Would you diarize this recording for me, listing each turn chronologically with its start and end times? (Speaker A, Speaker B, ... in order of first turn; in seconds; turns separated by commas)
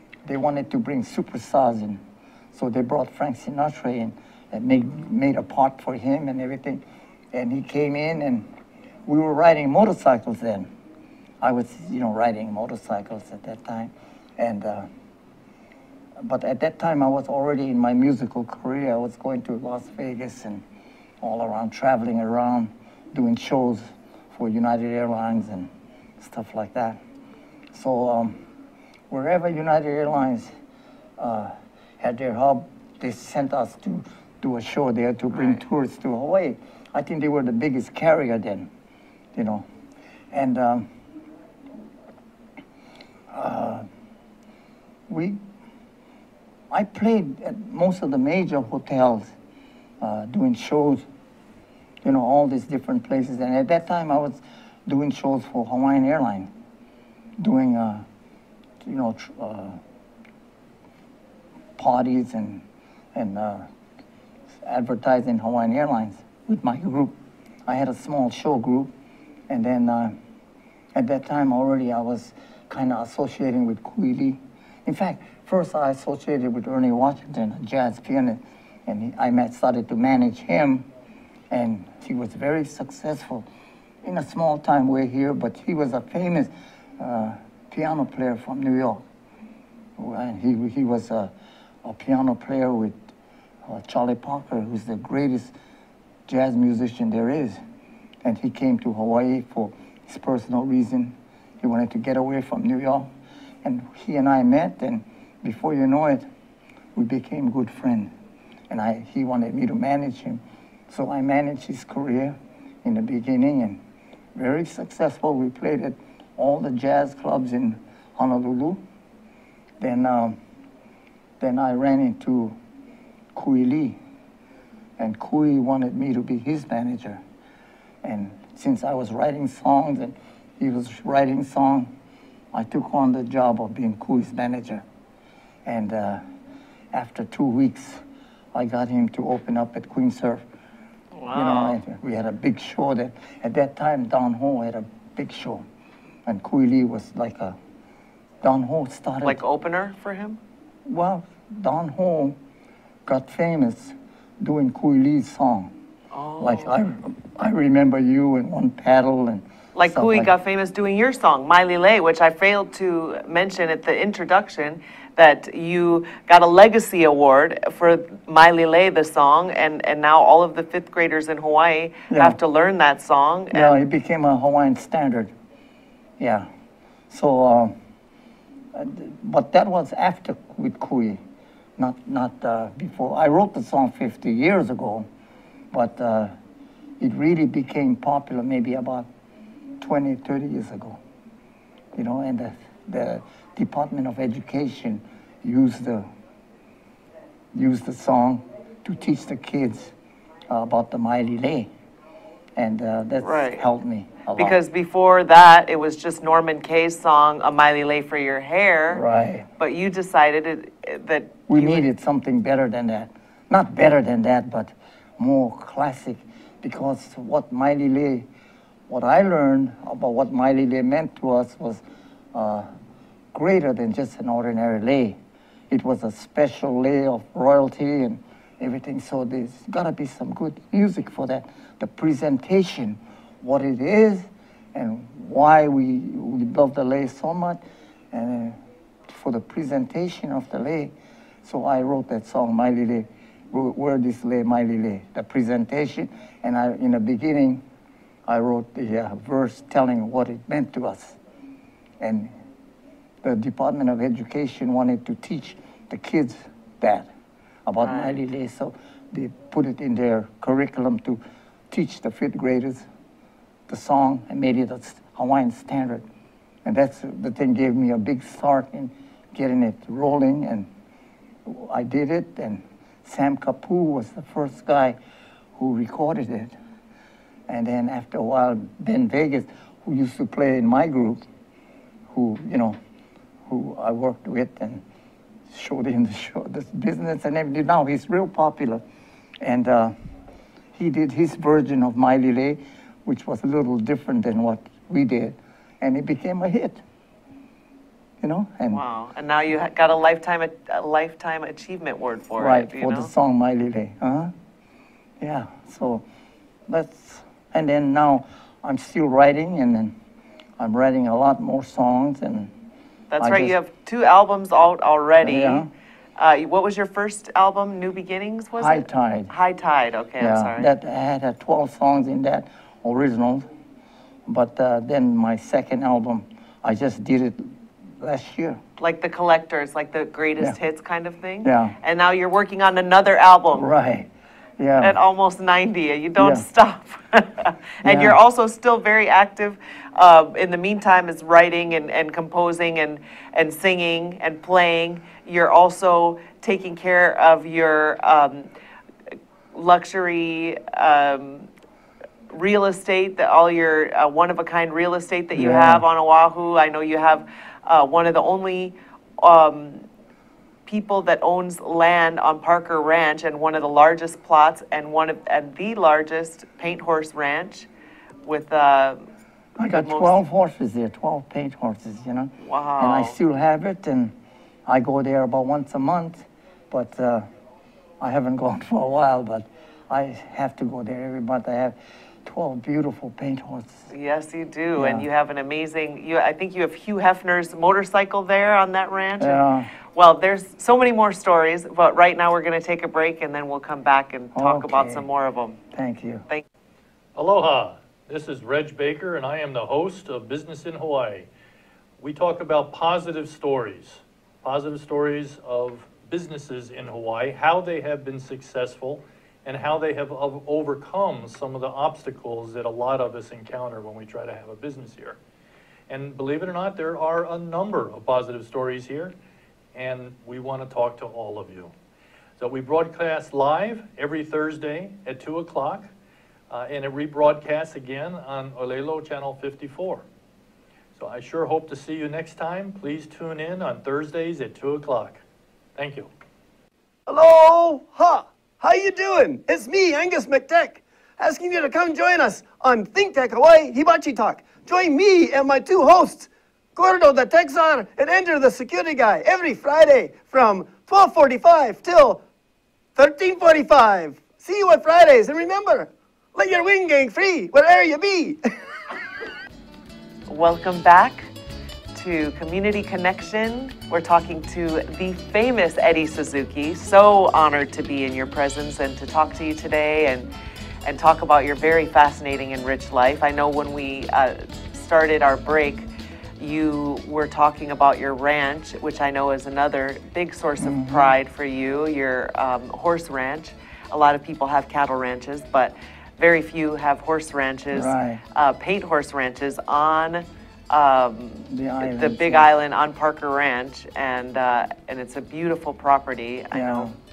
Speaker A: 0.2-2.0, Speaker A: 2.5-8.5, Speaker A: 9.1-10.7, Speaker A: 11.4-14.9, Speaker A: 16.2-20.6, Speaker A: 21.2-27.0, Speaker A: 27.7-28.4, Speaker A: 29.1-30.5, Speaker A: 31.2-38.7, Speaker B: 35.3-35.6, Speaker A: 39.3-39.6, Speaker A: 40.3-40.9, Speaker A: 43.3-43.9, Speaker A: 45.1-45.4, Speaker A: 46.7-49.3, Speaker A: 50.0-51.0, Speaker A: 52.0-56.5, Speaker A: 57.4-58.0, Speaker A: 58.8-59.8, Speaker A: 61.8-63.7, Speaker A: 64.6-68.9, Speaker A: 69.5-70.2, Speaker A: 70.9-80.9, Speaker A: 81.5-83.5, Speaker A: 84.0-89.0, Speaker A: 90.0-91.3, Speaker A: 91.8-93.0, Speaker A: 93.6-95.5, Speaker A: 96.3-97.6, Speaker A: 98.2-103.1, Speaker A: 103.6-106.2, Speaker A: 106.9-108.1, Speaker A: 108.7-113.8, Speaker A: 114.3-118.8, Speaker A: 119.8-120.4, Speaker A: 121.4-122.5, Speaker A: 123.3-124.0, Speaker A: 125.0-127.2, Speaker A: 128.0-131.9, Speaker A: 132.5-134.8, Speaker A: 135.6-136.2, Speaker A: 136.9-138.0, Speaker A: 138.5-140.4, Speaker B: 141.1-141.8, Speaker A: 141.3-145.6, Speaker A: 146.2-147.6, Speaker A: 148.4-149.4, Speaker B: 149.2-150.4, Speaker A: 150.8-152.4, Speaker A: 153.1-155.7, Speaker B: 156.1-156.8, Speaker A: 156.4-160.3, Speaker B: 159.7-173.8, Speaker A: 172.1-172.4, Speaker A: 173.5-175.3, Speaker A: 176.2-176.5, Speaker A: 177.1-177.7, Speaker A: 178.7-181.2, Speaker A: 181.8-185.1, Speaker A: 185.7-186.3, Speaker A: 187.0-189.1, Speaker A: 189.8-191.0, Speaker A: 191.9-196.1, Speaker A: 197.5-199.9, Speaker A: 200.5-201.7, Speaker A: 202.6-204.6, Speaker B: 203.2-203.7, Speaker B: 204.3-209.0, Speaker A: 208.9-209.5, Speaker B: 209.6-211.9, Speaker A: 211.5-218.3, Speaker A: 218.9-221.8, Speaker A: 222.3-222.7, Speaker A: 223.3-225.2, Speaker A: 225.7-240.9, Speaker A: 241.4-247.6, Speaker A: 248.2-251.2, Speaker A: 252.0-252.3, Speaker A: 253.2-257.1, Speaker A: 257.6-262.9, Speaker B: 257.8-258.2, Speaker A: 263.7-266.1, Speaker A: 266.6-270.7, Speaker A: 271.4-275.0, Speaker A: 275.6-276.5, Speaker A: 277.5-281.2, Speaker A: 282.1-282.8, Speaker A: 283.5-284.8, Speaker A: 285.5-288.8, Speaker A: 289.4-289.9, Speaker A: 290.7-296.8, Speaker A: 298.2-298.8, Speaker B: 298.7-303.1, Speaker A: 302.4-304.3, Speaker A: 305.2-306.0, Speaker A: 306.7-309.9, Speaker A: 310.6-312.5, Speaker B: 313.1-315.6, Speaker A: 313.2-313.6, Speaker A: 315.2-315.7, Speaker B: 316.2-320.7, Speaker A: 318.6-319.3, Speaker A: 320.2-323.4, Speaker A: 324.2-328.6, Speaker B: 328.8-333.7, Speaker A: 331.4-331.8, Speaker A: 333.5-334.9, Speaker B: 334.8-348.5, Speaker A: 336.2-336.4, Speaker A: 337.8-338.2, Speaker B: 349.5-351.5, Speaker B: 352.3-359.8, Speaker A: 355.3-355.8, Speaker B: 360.6-367.7, Speaker B: 368.2-369.0, Speaker A: 369.6-374.1, Speaker B: 369.6-370.2, Speaker B: 372.4-373.1, Speaker A: 374.6-377.3, Speaker A: 378.0-383.9, Speaker B: 383.9-395.6, Speaker A: 384.8-385.1, Speaker A: 389.2-389.7, Speaker A: 394.3-395.1, Speaker A: 395.7-396.2, Speaker C: 397.1-401.3, Speaker C: 402.0-415.2, Speaker C: 415.9-419.1, Speaker C: 419.7-421.7, Speaker C: 422.4-425.9, Speaker C: 426.5-430.0, Speaker C: 430.9-435.2, Speaker C: 435.8-436.1, Speaker D: 437.1-452.2, Speaker D: 452.9-458.4, Speaker B: 460.3-461.3, Speaker B: 461.9-470.3, Speaker B: 470.8-475.9, Speaker B: 476.4-496.9, Speaker A: 480.6-481.1, Speaker A: 487.7-488.2, Speaker A: 491.5-492.5, Speaker A: 496.5-496.9